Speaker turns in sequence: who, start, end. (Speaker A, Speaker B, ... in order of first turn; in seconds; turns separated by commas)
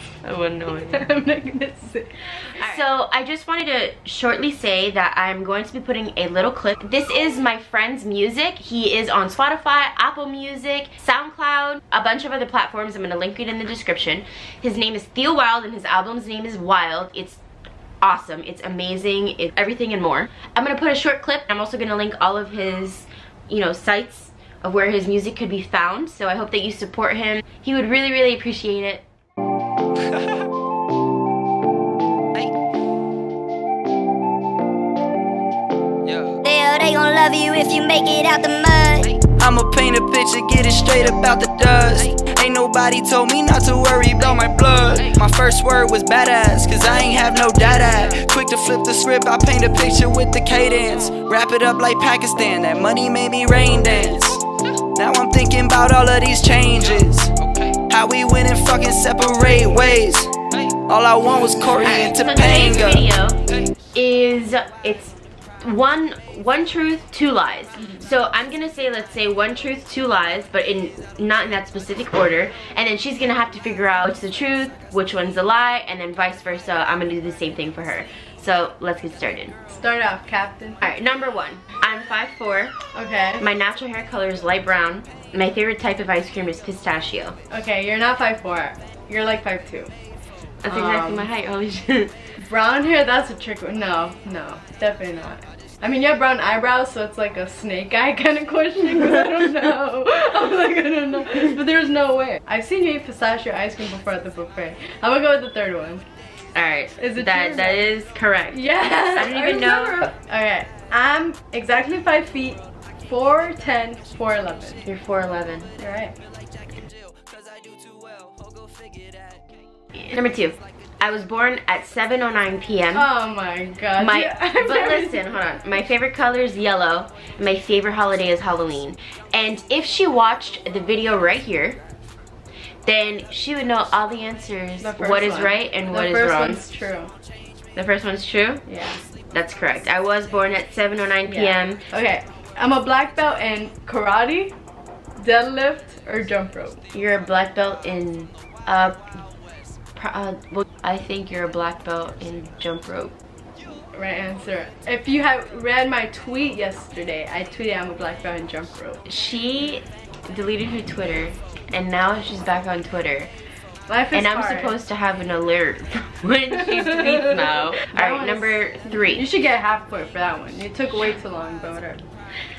Speaker A: 0.2-1.0, Speaker B: 0.8-2.1, Speaker A: 2.5-17.4, Speaker A: 18.0-29.0, Speaker C: 36.1-36.4, Speaker D: 36.4-39.0, Speaker C: 39.0-54.4, Speaker C: 54.9-63.1, Speaker A: 61.8-63.4, Speaker A: 63.9-79.5, Speaker B: 79.7-80.9, Speaker A: 80.8-82.7, Speaker B: 82.9-83.5, Speaker A: 83.4-87.3, Speaker B: 87.5-89.9, Speaker A: 90.6-92.1, Speaker B: 90.7-91.3, Speaker B: 92.4-106.0, Speaker A: 106.5-110.1, Speaker B: 107.0-107.9, Speaker B: 108.5-114.8, Speaker A: 114.8-115.7, Speaker B: 115.8-116.1, Speaker C: 117.3-119.3, Speaker A: 120.0-123.1, Speaker B: 122.9-125.2, Speaker A: 124.0-131.8, Speaker A: 132.8-136.6, Speaker B: 134.8-137.1, Speaker A: 137.7-138.7, Speaker B: 138.7-139.0, Speaker A: 139.3-141.8, Speaker B: 141.2-144.5, Speaker B: 145.2-146.8, Speaker A: 146.9-149.0, Speaker A: 149.9-153.1, Speaker B: 153.9-159.0, Speaker A: 159.1-163.3, Speaker B: 163.9-164.7, Speaker A: 164.1-169.3, Speaker B: 166.6-172.0